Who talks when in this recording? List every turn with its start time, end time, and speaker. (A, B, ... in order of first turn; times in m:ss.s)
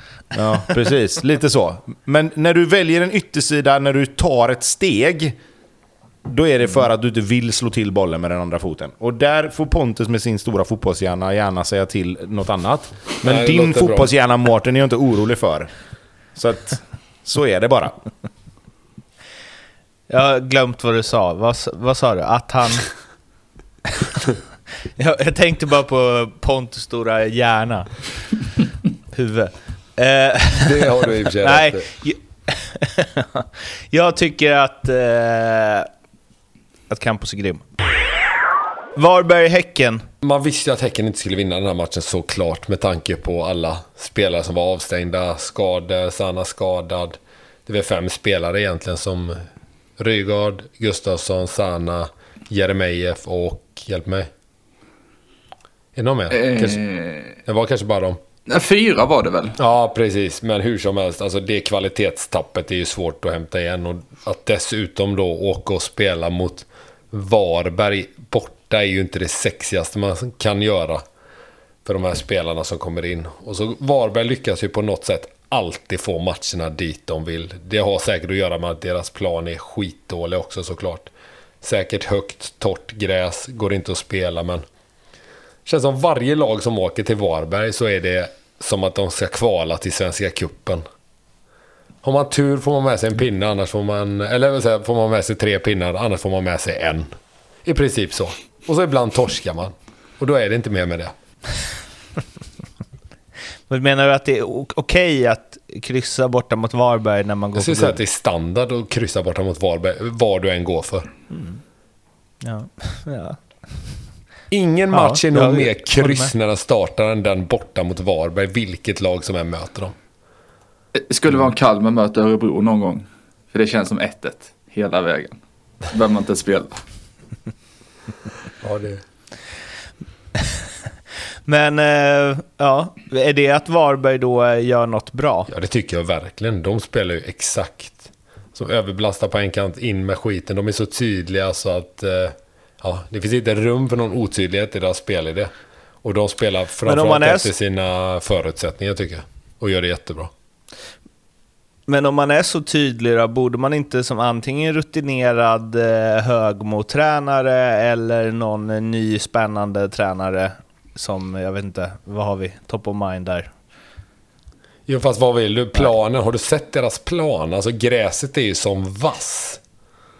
0:00.3-0:05.4 A
0:06.2-0:15.7 A
0:13.2-0:14.1 B
0:16.4-0:18.0 A
0:20.1-0:22.9 C
0:25.0-0:28.0 C
0:29.1-0:35.9 C
0:30.6-0:31.9 B
0:36.9-0:37.6 C
0:39.0-0:40.0 C
0:40.2-0:49.4 B
0:50.0-0:54.3 B
0:56.0-0:56.8 B
0:56.3-0:57.4 D
0:57.5-0:58.2 B
0:58.5-0:59.6 D
0:59.6-1:11.0 B
1:11.8-1:21.1 B
1:21.6-1:24.6 B
1:25.7-1:30.8 B
1:32.0-1:37.1 B
1:37.6-1:41.1 B
1:43.7-1:48.0 C
1:47.6-1:51.1 B
1:51.3-1:51.6 C
1:52.4-1:53.4 C
1:54.5-2:00.0 B
1:54.9-1:56.3 C
2:01.0-2:05.4 D
2:05.9-2:06.8 D
2:08.6-2:09.0 B
2:11.5-2:15.5 C
2:15.5-2:25.5 B
2:26.0-2:30.3 B
2:26.8-2:27.5 C
2:31.9-2:43.5 C
2:44.9-2:49.6 B